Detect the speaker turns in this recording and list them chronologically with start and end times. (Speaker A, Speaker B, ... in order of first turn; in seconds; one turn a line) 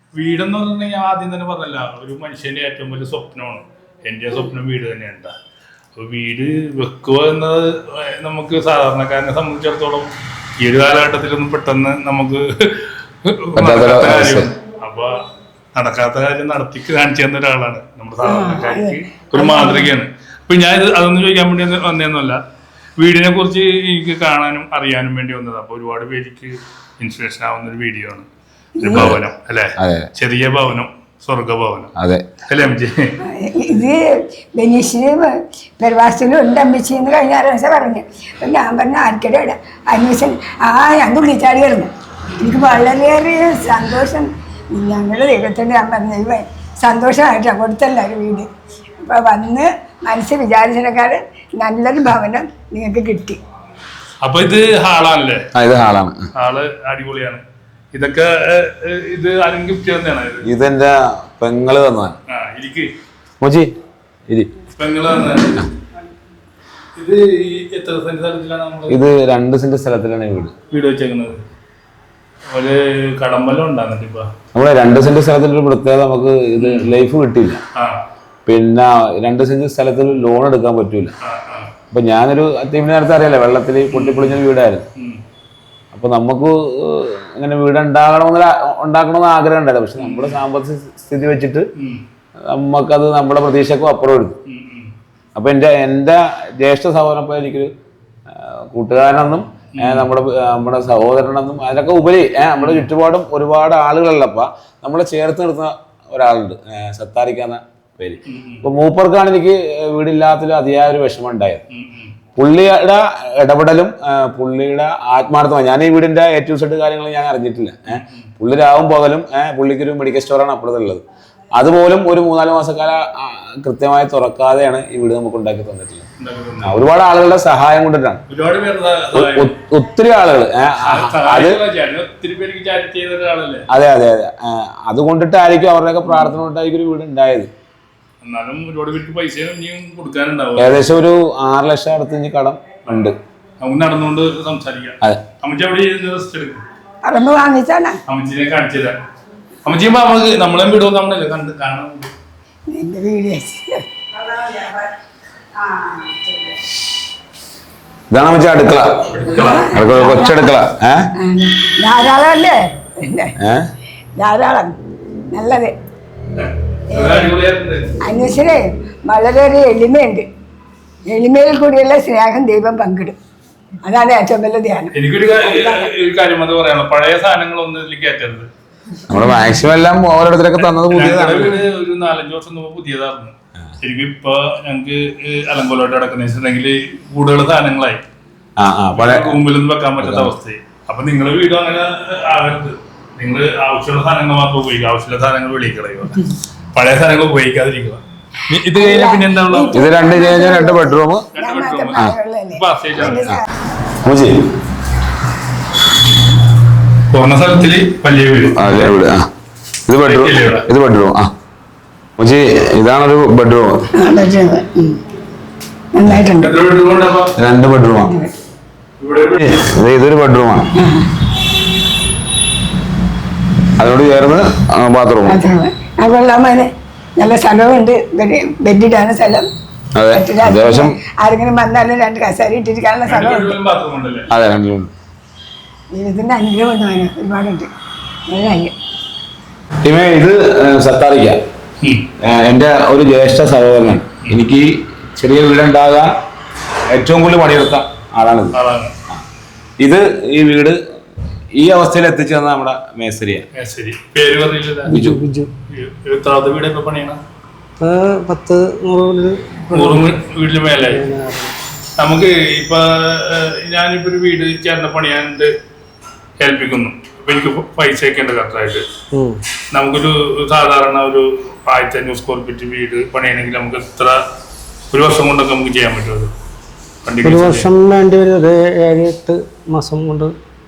Speaker A: 0.1-5.3
Speaker A: 6.0-15.2
Speaker B: 13.6-14.5
Speaker A: 15.7-22.4
Speaker C: 18.2-19.9
Speaker A: 23.0-28.3
Speaker C: 28.8-29.1
Speaker A: 28.8-31.9
Speaker B: 29.8-30.1
Speaker B: 32.0-32.2
Speaker A: 32.5-33.1
Speaker C: 33.3-34.0
Speaker C: 34.6-41.9
Speaker C: 42.4-48.5
Speaker C: 49.0-53.4
Speaker A: 54.2-55.4
Speaker B: 55.5-56.3
Speaker A: 56.4-57.4
Speaker A: 57.9-60.5
Speaker B: 60.4-62.1
Speaker A: 62.3-62.9
Speaker B: 63.4-63.7
Speaker A: 64.7-65.7
Speaker A: 67.0-69.0
Speaker B: 68.9-70.5
Speaker A: 70.7-71.4
Speaker A: 72.5-74.3
Speaker B: 74.5-77.6
Speaker A: 76.6-76.9
Speaker B: 78.5-81.1
Speaker A: 81.2-81.7
Speaker B: 81.9-84.8
Speaker A: 83.9-84.4
Speaker B: 85.9-91.7
Speaker A: 90.0-90.4
Speaker B: 92.5-94.3
Speaker A: 94.5-94.9
Speaker B: 95.3-97.7
Speaker B: 98.3-111.6
Speaker A: 99.7-100.1
Speaker A: 102.6-102.9
Speaker A: 108.2-108.6
Speaker A: 111.7-112.1
Speaker B: 112.4-121.0
Speaker A: 117.9-118.3
Speaker B: 121.5-126.0
Speaker A: 126.2-126.8
Speaker B: 126.6-128.2
Speaker A: 128.3-129.5
Speaker B: 129.1-131.6
Speaker A: 130.8-133.6
Speaker B: 133.7-137.5
Speaker A: 136.1-136.3
Speaker A: 138.2-140.8
Speaker B: 140.6-143.1
Speaker A: 142.8-146.6
Speaker C: 147.0-148.0
Speaker A: 148.1-148.9
Speaker A: 149.6-152.1
Speaker C: 152.7-154.8
Speaker C: 156.1-156.4
Speaker B: 158.1-159.1
Speaker A: 159.1-159.7
Speaker C: 159.3-160.5
Speaker B: 159.7-161.1
Speaker C: 161.2-163.3
Speaker B: 163.4-163.7
Speaker C: 164.2-164.7
Speaker C: 165.3-165.7
Speaker A: 166.4-167.9
Speaker C: 166.9-167.3
Speaker C: 168.0-170.2
Speaker C: 171.1-173.2
Speaker C: 173.8-175.9
Speaker A: 174.9-178.5
Speaker B: 179.1-181.6
Speaker A: 180.6-188.0
Speaker B: 188.6-189.4
Speaker A: 188.9-196.2
Speaker B: 190.0-190.3
Speaker A: 196.7-199.8
Speaker C: 198.7-203.4
Speaker B: 199.7-201.3
Speaker A: 201.3-203.3
Speaker B: 204.0-204.4
Speaker A: 207.1-208.9
Speaker B: 208.6-209.3
Speaker B: 209.9-211.3
Speaker A: 210.0-210.7
Speaker B: 212.2-213.7
Speaker C: 214.0-215.0
Speaker C: 215.9-216.5
Speaker A: 216.4-217.3
Speaker B: 217.4-218.1
Speaker A: 219.0-219.4
Speaker B: 219.4-220.7
Speaker C: 220.8-221.1
Speaker B: 223.8-225.4
Speaker C: 225.3-229.5
Speaker B: 229.9-231.0
Speaker C: 230.1-233.6
Speaker A: 233.1-234.3
Speaker B: 234.3-234.9
Speaker C: 235.9-237.7
Speaker C: 238.3-238.7
Speaker B: 239.8-241.4
Speaker B: 242.2-246.1
Speaker B: 246.9-248.5
Speaker A: 248.5-248.9
Speaker B: 249.8-250.8
Speaker B: 251.6-253.4
Speaker A: 253.6-255.0
Speaker D: 254.9-255.5
Speaker B: 254.9-255.2
Speaker A: 255.7-257.2
Speaker D: 257.8-260.1
Speaker A: 259.7-261.0
Speaker D: 260.9-261.6
Speaker A: 262.0-265.5
Speaker A: 266.4-268.8
Speaker D: 269.1-269.4
Speaker A: 269.7-274.2
Speaker A: 274.9-276.3
Speaker A: 277.0-277.7
Speaker D: 277.2-280.3